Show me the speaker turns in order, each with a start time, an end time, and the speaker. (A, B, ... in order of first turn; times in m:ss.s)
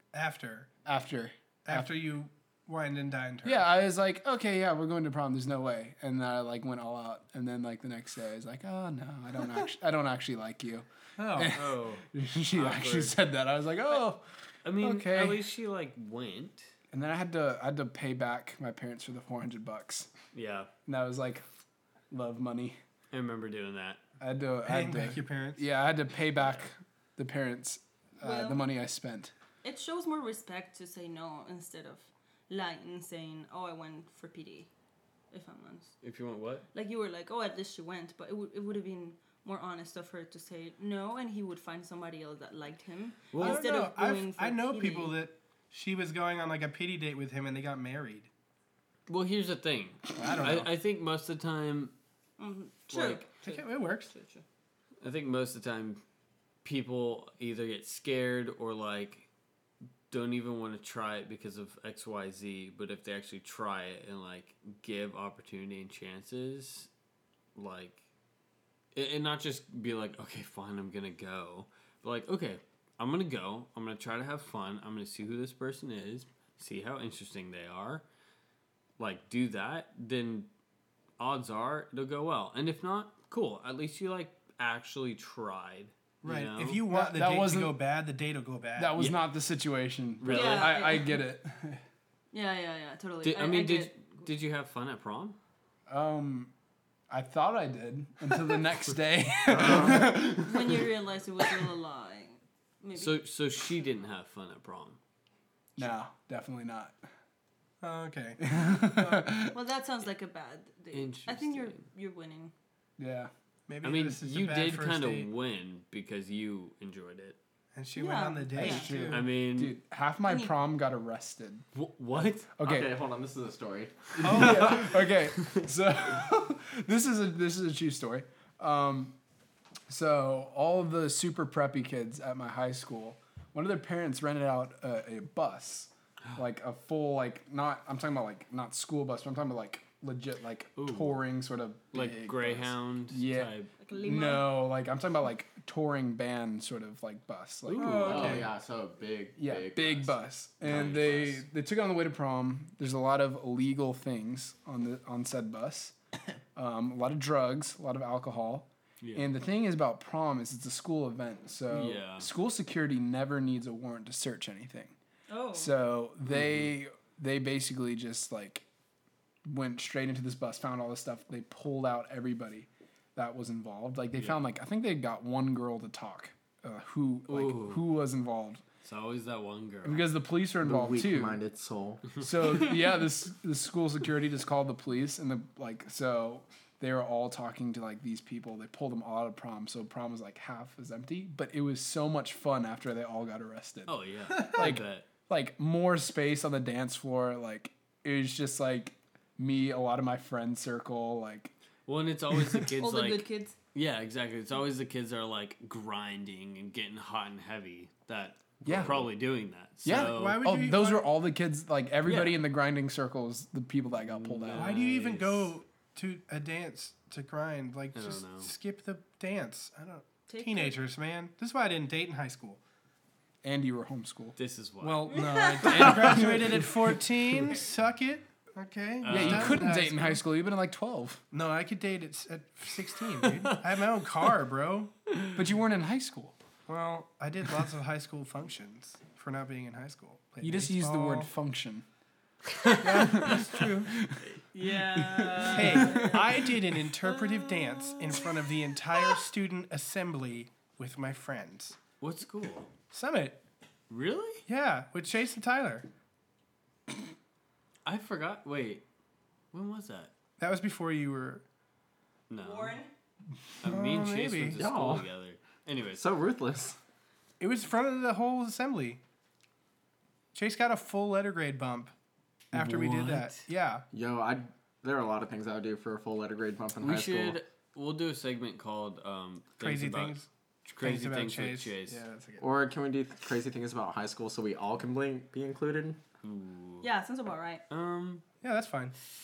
0:00.1-0:00.7 A
0:00.8-0:01.9 B
0:01.6-0:03.7 A
0:03.4-0:14.2 B
0:11.2-0:11.5 A
0:11.5-0:13.2 C
0:14.6-0:16.7 C
0:14.8-0:15.4 B
0:16.9-0:20.1 B
0:20.3-0:20.7 C
0:20.8-0:21.4 B
0:22.1-0:22.8 B
0:23.1-0:24.0 C
0:24.2-0:29.3 B
0:24.6-0:25.6 A
0:28.2-0:28.7 D
0:29.6-0:34.7 D
0:35.3-0:36.0 D
0:36.0-0:36.7 C
0:36.7-0:45.1 D
0:43.3-0:43.6 C
0:43.4-0:48.3 A
0:49.1-0:51.9 C
0:50.2-0:50.7 A
0:52.4-0:53.6 D
0:52.9-0:53.3 C
0:53.4-0:54.1 A
0:54.1-0:54.4 D
0:55.0-0:56.0 C
0:56.6-0:59.3 C
1:00.1-1:06.9 C
1:07.5-1:08.0 C
1:08.9-1:18.0 C
1:19.0-1:20.5 C
1:21.2-1:26.8 C
1:26.2-1:28.9 A
1:26.9-1:27.8 B
1:28.8-1:31.8 B
1:30.2-1:30.9 C
1:30.3-1:31.2 D
1:32.3-1:34.0 D
1:33.2-1:35.4 C
1:35.9-1:36.5 B
1:37.1-1:40.9 B
1:39.5-1:40.1 E
1:40.2-1:43.2 D
1:42.9-1:45.0 C
1:45.8-1:47.0 B
1:47.8-1:49.2 A
1:48.4-1:49.6 B
1:49.5-1:52.5 D
1:50.9-1:51.8 C
1:53.0-1:53.3 B
1:53.7-1:55.3 A
1:53.8-1:57.4 C
1:57.7-1:59.2 A
1:58.0-1:58.9 D
1:58.6-2:01.6 B
1:59.0-1:59.8 C
2:00.2-2:00.5 D
2:01.7-2:02.5 C
2:02.6-2:02.9 B
2:02.6-2:04.9 E
2:04.1-2:09.2 B
2:04.2-2:04.9 A
2:09.9-2:28.5 B
2:20.8-2:21.2 C
2:21.9-2:23.7 C
2:23.8-2:24.6 D
2:27.7-2:28.5 C
2:27.8-2:28.1 A
2:28.1-2:30.2 E
2:29.4-2:35.9 B
2:30.6-2:31.4 C
2:36.5-2:44.9 B
2:39.0-2:39.3 C
2:41.7-2:42.3 C
2:45.3-2:45.7 D
2:45.5-2:48.6 B
2:46.3-2:46.7 C
2:49.4-2:58.6 B
2:57.3-2:57.8 C
2:58.8-3:00.0 C
2:59.8-3:01.4 B
3:00.6-3:02.1 E
3:02.1-3:21.5 B
3:13.9-3:15.1 C
3:21.8-3:30.4 C
3:22.8-3:23.5 D
3:28.6-3:28.9 E
3:28.6-3:29.1 B
3:29.8-3:34.8 B
3:29.9-3:31.1 A
3:32.0-3:32.4 C
3:34.0-3:35.5 C
3:34.5-3:42.6 A
3:37.9-3:38.5 C
3:40.3-3:40.8 D
3:43.4-3:44.4 B
3:44.4-3:46.6 C
3:44.8-3:50.2 A
3:45.1-3:45.9 D
3:45.9-3:46.5 B
3:49.0-3:49.7 C
3:49.1-3:51.2 B
3:51.3-3:54.9 A
3:53.2-3:53.6 C
3:55.1-3:55.4 C
3:55.4-3:56.3 B
3:56.7-4:01.3 A
4:00.4-4:01.8 B
4:02.5-4:03.4 C
4:02.8-4:03.9 A
4:02.8-4:06.1 B
4:04.3-4:08.4 C
4:05.4-4:06.2 D
4:05.5-4:11.8 A
4:12.0-4:12.7 C
4:12.9-4:13.4 A
4:13.9-4:14.4 C
4:14.5-4:15.9 A
4:17.8-4:18.8 C
4:19.5-4:20.1 C
4:20.4-4:21.4 A
4:22.3-4:22.8 C
4:22.4-4:22.9 D
4:23.6-4:26.0 C
4:23.6-4:24.6 A
4:24.6-4:25.1 E
4:25.9-4:26.8 E
4:27.4-4:29.0 A
4:30.3-4:31.9 A
4:32.5-4:33.4 C
4:32.5-4:33.8 A
4:33.9-4:37.4 E
4:36.8-4:42.0 C
4:39.6-4:40.3 A
4:40.8-4:42.5 A
4:42.4-4:46.0 E
4:46.2-4:46.9 C
4:46.8-4:47.6 D
4:47.7-4:48.2 C
4:48.4-4:48.9 A